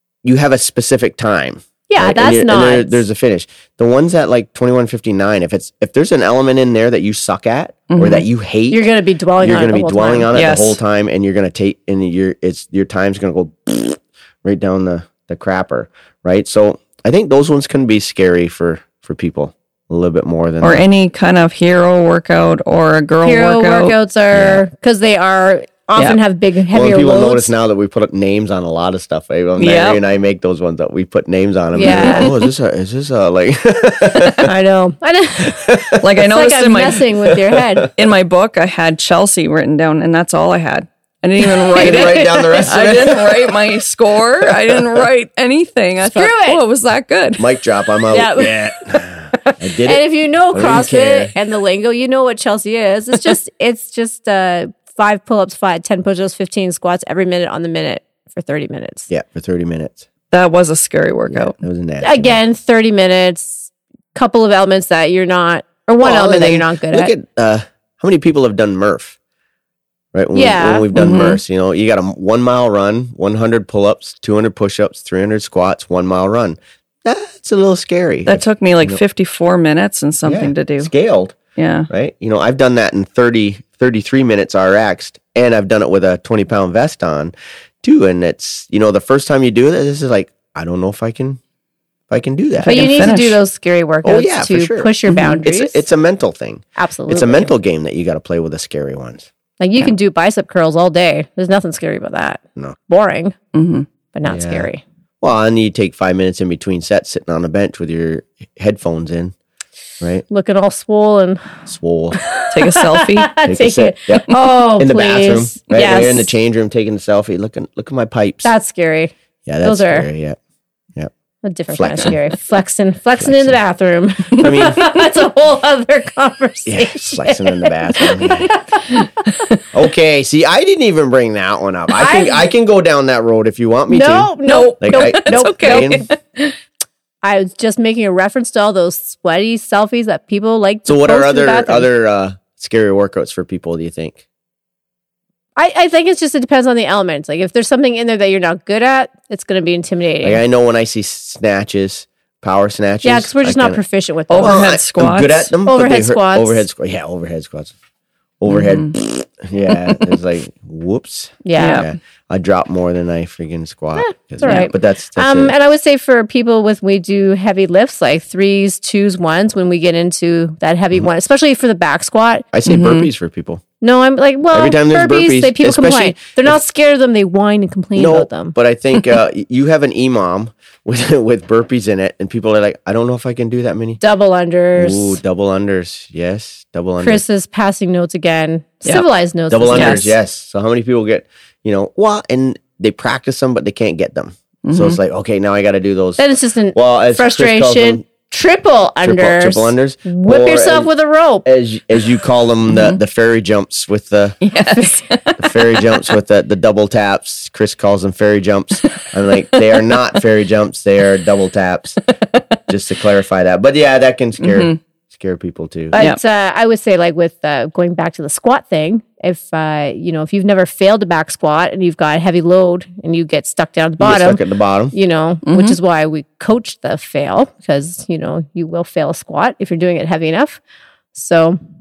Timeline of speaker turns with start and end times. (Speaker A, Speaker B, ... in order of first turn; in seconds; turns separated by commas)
Speaker A: 0.2-8.9, Speaker B: 1.9-3.0, Speaker C: 7.9-8.2, Speaker B: 8.7-10.3, Speaker A: 9.4-20.8, Speaker C: 10.3-10.8, Speaker C: 20.6-23.9, Speaker B: 23.2-27.5, Speaker A: 24.3-24.6, Speaker A: 26.7-34.5, Speaker C: 29.6-30.0, Speaker B: 31.7-32.3, Speaker C: 31.8-32.3, Speaker B: 34.4-37.9, Speaker A: 35.5-36.1, Speaker C: 36.0-37.1, Speaker C: 37.9-47.5, Speaker A: 41.7-43.6, Speaker B: 41.8-42.3, Speaker A: 44.5-44.8, Speaker B: 46.0-46.6, Speaker A: 47.4-51.3, Speaker B: 48.1-48.8, Speaker B: 49.4-59.1, Speaker A: 59.1-60.0, Speaker C: 60.3-61.6, Speaker A: 61.3-62.4, Speaker B: 62.0-67.1, Speaker A: 66.0-69.2, Speaker A: 70.1-79.0, Speaker B: 70.3-70.9, Speaker C: 70.9-71.4, Speaker C: 78.2-80.9, Speaker A: 80.2-81.4, Speaker C: 81.5-81.9, Speaker A: 81.9-91.4, Speaker A: 92.1-93.1, Speaker C: 92.6-93.4, Speaker B: 92.6-95.8, Speaker A: 94.0-99.3, Speaker C: 95.1-95.4, Speaker B: 96.8-97.5, Speaker B: 99.6-103.3, Speaker C: 103.5-103.8, Speaker B: 104.1-104.8, Speaker A: 104.3-104.7, Speaker A: 105.2-109.3, Speaker A: 110.0-110.2, Speaker B: 110.3-111.6, Speaker A: 111.7-112.2, Speaker B: 112.1-116.3, Speaker C: 112.5-113.3, Speaker A: 113.4-118.5, Speaker B: 118.4-120.1, Speaker A: 119.5-120.4, Speaker B: 121.4-129.0, Speaker A: 121.7-122.2, Speaker A: 123.2-123.6, Speaker A: 124.3-124.8, Speaker A: 126.7-128.6, Speaker A: 129.7-136.1, Speaker B: 131.9-132.5, Speaker B: 133.9-136.6, Speaker C: 134.5-136.2, Speaker B: 137.2-141.9, Speaker A: 140.8-144.2, Speaker B: 145.6-150.4, Speaker A: 150.2-153.8, Speaker B: 153.0-154.7, Speaker C: 154.3-155.5, Speaker A: 154.3-157.7, Speaker B: 155.7-156.7, Speaker A: 158.4-165.5, Speaker C: 158.5-158.9, Speaker B: 161.4-161.8, Speaker C: 161.6-161.9, Speaker B: 163.9-172.5, Speaker A: 172.5-173.6, Speaker C: 172.7-173.1, Speaker B: 173.8-178.5, Speaker A: 174.5-176.6, Speaker A: 177.9-184.0, Speaker B: 184.0-185.2, Speaker A: 184.8-187.2, Speaker B: 187.0-190.1, Speaker A: 189.5-198.0, Speaker C: 189.7-190.1, Speaker C: 194.6-195.0, Speaker B: 196.2-201.4, Speaker A: 199.0-200.9, Speaker A: 201.4-204.4, Speaker C: 202.7-203.0, Speaker C: 204.4-205.4, Speaker B: 204.7-205.0, Speaker A: 205.4-212.0, Speaker C: 209.5-210.0, Speaker A: 212.7-216.0, Speaker C: 214.4-214.8, Speaker B: 215.9-230.6, Speaker A: 224.0-224.9, Speaker C: 225.4-225.8, Speaker B: 231.1-231.6